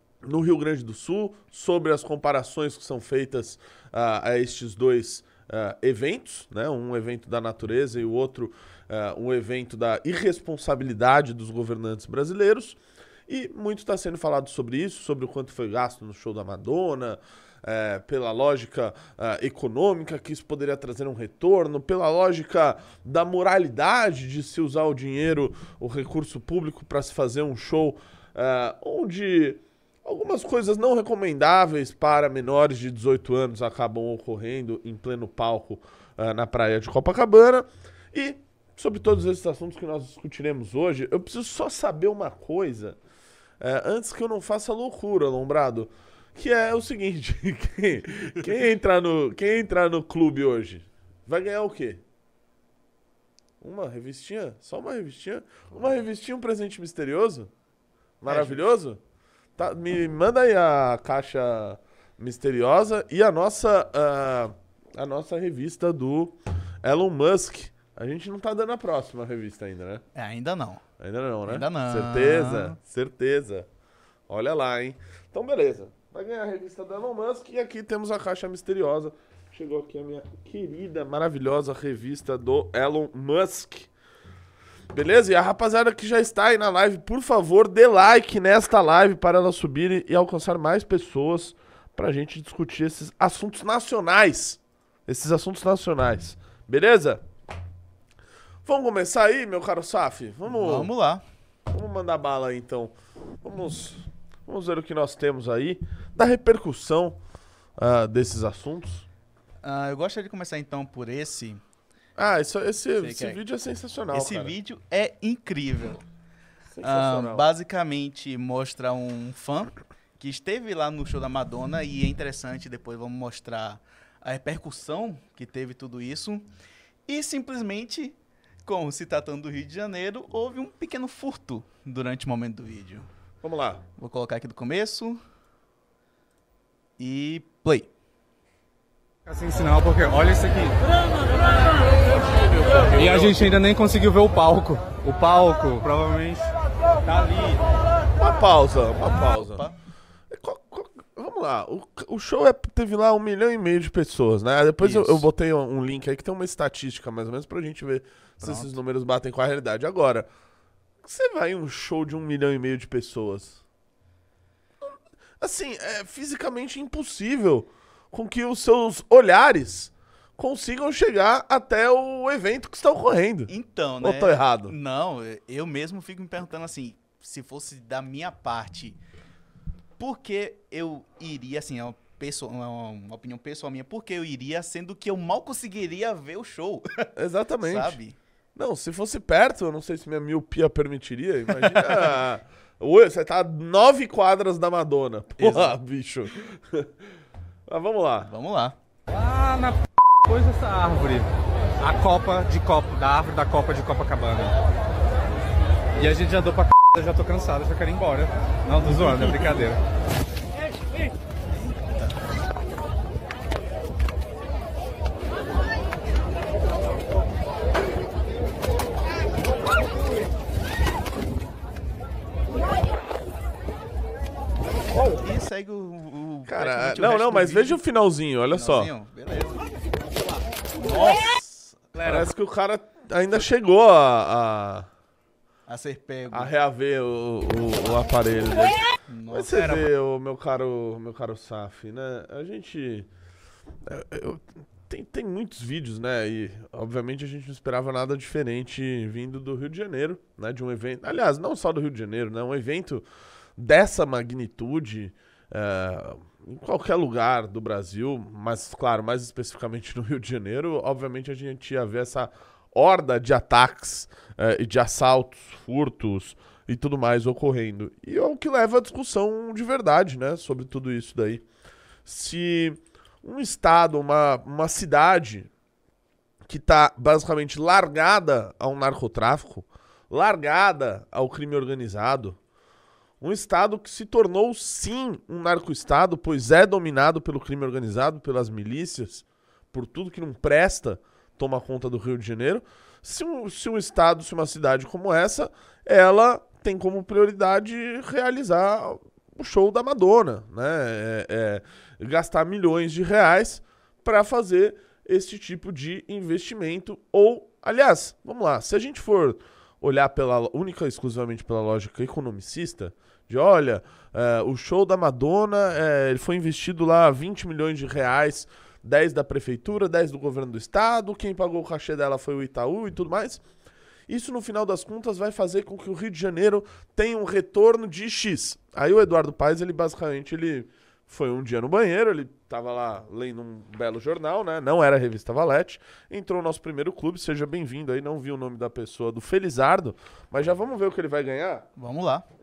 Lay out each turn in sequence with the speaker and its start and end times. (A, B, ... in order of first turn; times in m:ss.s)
0:00.2-0:43.0 A
0:43.6-0:52.0 A
0:53.6-0:57.5 A
0:58.2-0:59.0 A
0:58.3-0:58.7 B
0:59.6-1:10.0 A
1:10.1-1:10.8 B
1:11.0-1:13.7 A
1:11.4-1:12.8 B
1:14.3-1:23.9 A
1:24.9-1:37.2 A
1:38.6-1:40.9 A
1:40.4-1:41.2 B
1:41.7-1:47.2 A
1:47.8-1:49.0 A
1:49.6-1:51.6 B
1:52.2-1:54.6 A
1:53.0-1:53.4 B
1:54.1-1:56.0 B
1:56.7-1:57.4 A
1:56.8-2:06.4 B
2:07.1-2:13.1 B
2:13.4-2:13.8 A
2:14.0-2:15.2 B
2:17.0-2:17.9 B
2:19.2-2:20.8 C
2:22.4-2:23.4 A
2:22.9-2:26.5 C
2:27.0-2:27.6 C
2:28.2-2:29.7 A
2:29.0-2:29.8 B
2:30.3-2:40.3 A
2:34.8-2:35.3 B
2:38.4-2:38.8 B
2:41.0-2:43.6 A
2:45.4-2:54.7 A
2:53.5-2:59.0 B
3:00.0-3:08.2 B
3:07.2-3:08.0 A
3:08.5-3:16.9 A
3:11.5-3:12.2 B
3:15.4-3:15.8 B
3:17.7-3:18.3 A
3:18.2-3:18.8 B
3:19.1-3:21.3 C
3:21.8-3:24.6 C
3:26.0-3:29.8 C
3:45.0-3:47.8 B
3:46.4-3:48.9 A
3:48.5-3:49.8 B
3:50.7-3:52.2 B
3:52.0-3:54.9 A
3:55.7-3:56.5 B
3:56.3-3:58.8 A
3:59.1-3:59.8 B
3:59.3-4:03.1 A
4:03.8-4:13.0 A
4:13.6-4:31.4 A
4:32.0-4:35.5 A
4:36.5-4:42.4 A
4:43.2-5:23.4 A
5:24.1-5:41.6 A
5:41.8-5:42.2 B